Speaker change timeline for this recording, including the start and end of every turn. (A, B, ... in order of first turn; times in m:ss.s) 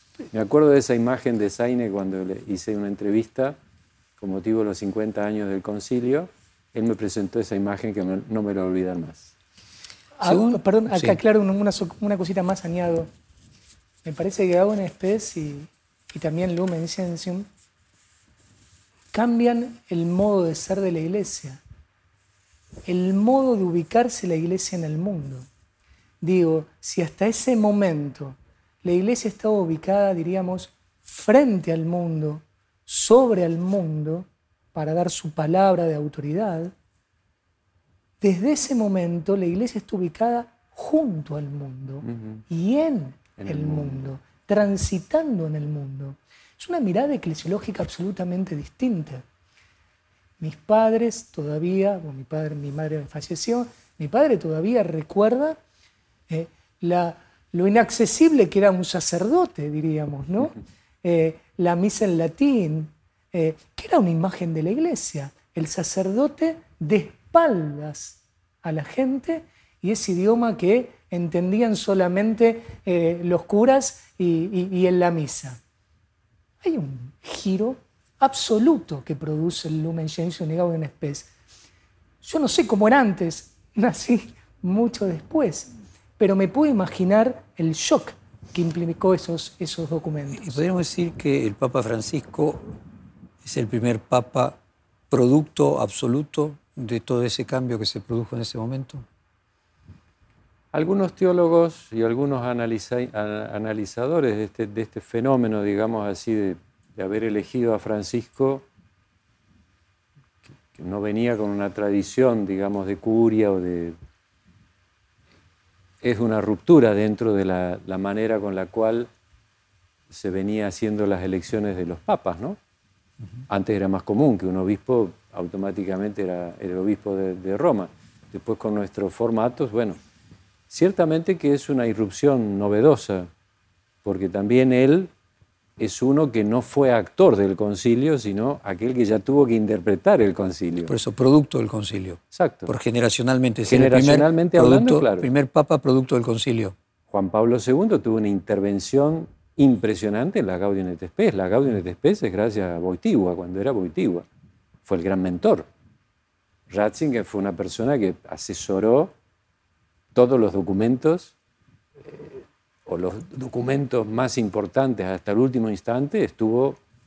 0:00.3-0:03.6 A
0:04.2-0:09.3 A
0:10.2-0:13.1 B
0:10.2-0:11.2 C
0:14.0-0:17.5 B
0:19.1-0:21.6 B
0:22.8-0:25.5 B
0:26.2-0:36.7 B
0:38.2-0:49.2 B
0:42.0-0:42.4 A
0:43.4-0:44.0 A
0:50.4-0:55.6 B
0:56.3-1:15.6 B
1:16.6-1:21.3 B
1:22.2-1:30.5 B
1:30.3-1:32.8 C
1:33.4-1:34.6 C
1:35.1-1:39.0 C
1:40.7-1:48.6 A
1:50.7-1:54.0 A
1:56.0-1:59.1 A
2:00.1-2:02.6 A
2:03.5-2:10.0 A
2:10.7-2:13.3 A
2:14.0-2:15.1 A
2:15.8-2:20.9 A
2:20.8-2:26.7 C
2:22.3-2:22.7 A
2:23.7-2:25.3 A
2:27.1-2:34.2 A
2:34.8-2:35.6 A
2:36.7-2:39.1 A
2:40.1-2:41.3 A
2:42.0-2:46.8 A